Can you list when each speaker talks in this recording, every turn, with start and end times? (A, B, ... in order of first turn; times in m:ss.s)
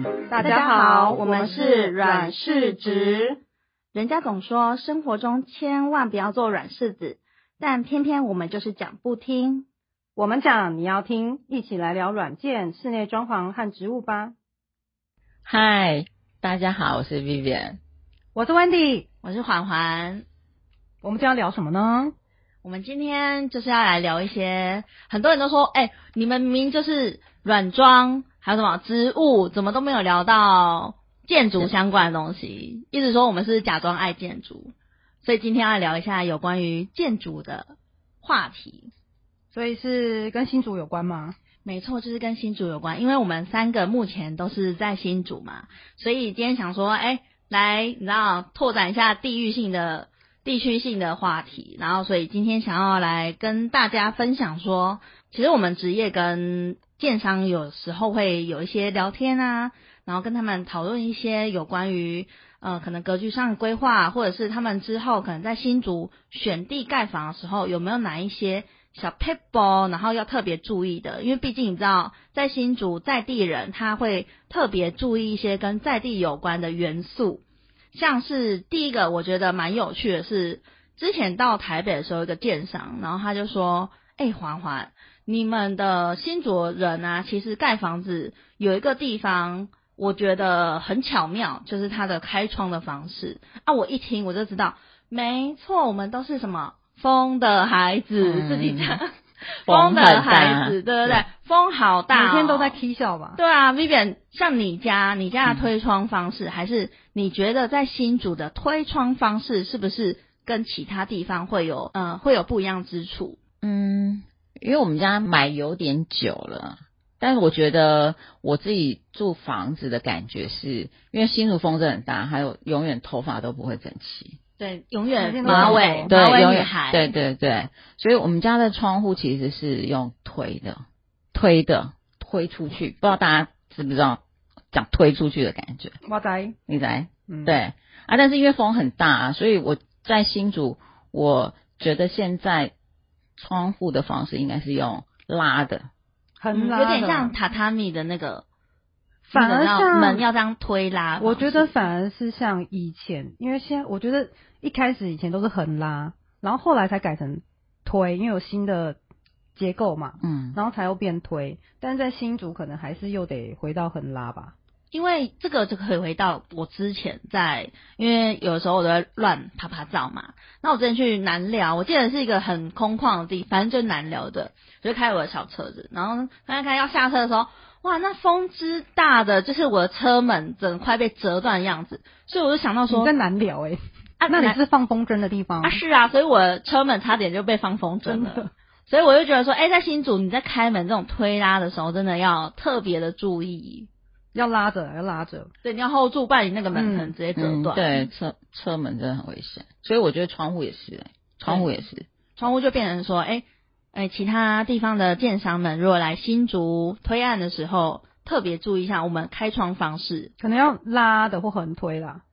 0:00.3-0:02.8 A
0:00.4-0:03.4 B
0:03.9-0:09.6 B
0:10.2-0:14.3 A
0:15.4-0:17.8 C
0:18.3-0:19.0 A
0:19.2-0:20.2 B
0:21.0-0:22.1 A
0:22.6-0:38.9 B
0:39.5-0:41.4 A
0:41.6-1:17.4 B
1:17.9-1:42.8 B
1:38.2-1:39.0 C
1:39.6-1:41.2 C
1:42.1-1:43.4 A
1:43.4-1:53.4 B
1:53.6-2:04.4 C
2:04.6-2:07.1 B
2:05.2-2:06.1 A
2:05.4-2:10.8 C
2:11.3-2:14.2 C
2:14.7-2:15.9 C
2:16.0-2:16.6 A
2:16.7-2:22.7 C
2:17.3-2:17.6 A
2:23.4-2:25.9 C
2:26.4-2:27.3 A
2:26.5-2:28.4 B
2:29.3-2:30.2 A
2:29.3-2:31.7 B
2:31.2-2:39.0 A
2:39.6-2:44.5 A
2:40.2-2:40.6 C
2:44.9-3:03.1 B
3:02.9-3:05.8 A
3:04.2-3:04.6 B
3:05.6-3:13.9 B
3:08.0-3:08.5 A
3:14.3-3:15.5 A
3:15.6-3:17.8 B
3:16.7-3:17.1 A
3:17.4-3:22.0 C
3:21.4-3:21.7 B
3:22.4-3:30.3 B
3:30.4-3:32.2 A